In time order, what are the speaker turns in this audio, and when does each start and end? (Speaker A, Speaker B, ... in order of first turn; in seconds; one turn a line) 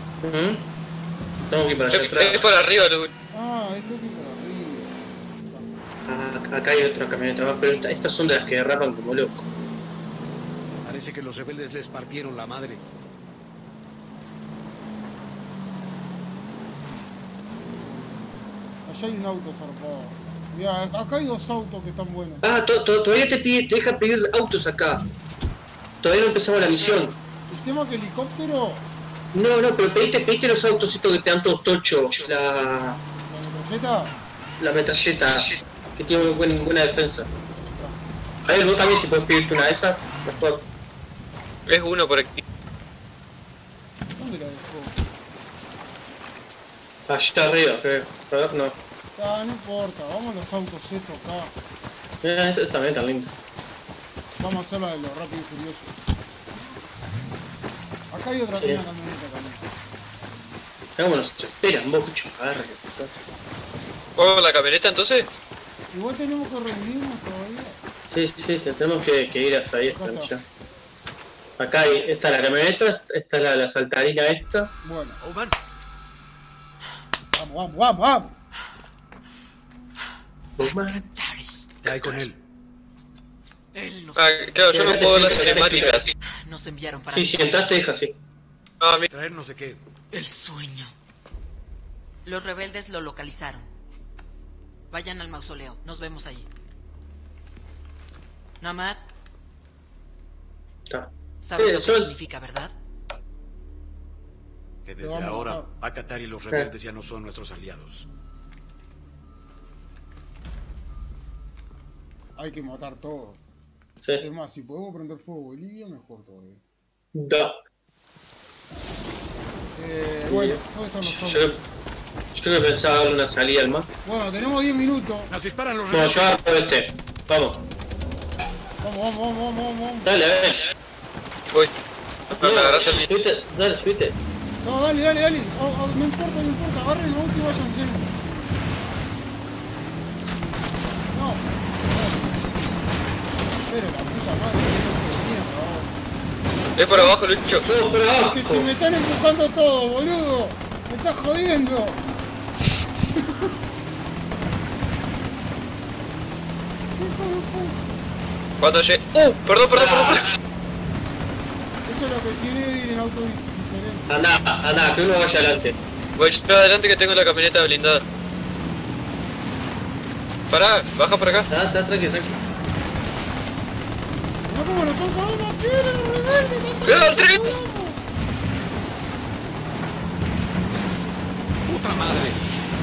Speaker A: 0.2-0.7
Speaker A: 1.5-2.5
Speaker B: 1.9-3.1
Speaker C: 3.3-5.8
Speaker A: 6.1-9.5
Speaker D: 10.8-12.8
Speaker C: 17.7-22.5
Speaker A: 22.4-25.1
Speaker A: 26.0-27.2
Speaker C: 27.5-28.9
Speaker A: 29.3-33.0
Speaker C: 33.3-34.2
Speaker A: 34.6-37.3
Speaker C: 37.6-38.0
Speaker A: 38.5-40.7
Speaker B: 41.7-42.4
Speaker C: 44.2-45.0
Speaker A: 47.1-48.8
Speaker C: 49.2-51.5
Speaker A: 52.2-53.3
Speaker C: 54.4-56.0
Speaker C: 58.1-59.7
Speaker A: 61.0-63.1
Speaker B: 64.2-65.3
Speaker C: 65.9-67.8
Speaker A: 68.1-70.4
Speaker C: 69.9-70.3
Speaker A: 71.6-74.7
Speaker C: 74.8-75.2
Speaker D: 75.2-75.6
Speaker C: 77.3-78.4
Speaker A: 80.6-81.0
Speaker E: 80.6-81.5
Speaker D: 81.8-82.4
Speaker E: 83.7-84.4
Speaker B: 84.2-86.1
Speaker A: 84.7-86.1
Speaker E: 86.4-87.9
Speaker A: 87.1-88.2
Speaker B: 88.8-89.1
Speaker D: 89.1-89.8
Speaker E: 90.1-91.0
Speaker E: 92.2-93.7
Speaker E: 94.9-96.5
Speaker E: 98.6-99.0
Speaker A: 100.9-102.1
Speaker E: 101.4-102.8
Speaker D: 104.8-108.1
Speaker C: 105.0-105.7
Speaker C: 112.4-113.4
Speaker C: 114.2-116.6
Speaker A: 117.1-117.6
Speaker C: 119.8-121.5
Speaker A: 120.3-121.6
Speaker A: 122.3-123.9
Speaker C: 124.0-125.3
Speaker D: 125.3-126.4
Speaker A: 125.9-127.6
Speaker C: 128.8-130.1
Speaker A: 130.1-130.7
Speaker A: 132.4-134.2
Speaker B: 132.4-133.1
Speaker C: 134.6-138.2
Speaker C: 141.1-142.8
Speaker C: 143.7-145.9
Speaker B: 146.8-147.7
Speaker C: 146.9-147.2
Speaker A: 147.7-148.7
Speaker C: 148.1-152.0
Speaker C: 153.2-153.5
Speaker C: 157.0-157.8
Speaker B: 158.6-160.3
Speaker A: 159.8-160.2
Speaker C: 161.8-164.2
Speaker A: 164.1-165.8
Speaker B: 166.2-168.0
Speaker B: 170.5-171.5
Speaker A: 171.5-172.4
Speaker C: 174.5-178.0
Speaker B: 176.8-177.4
Speaker D: 181.7-182.4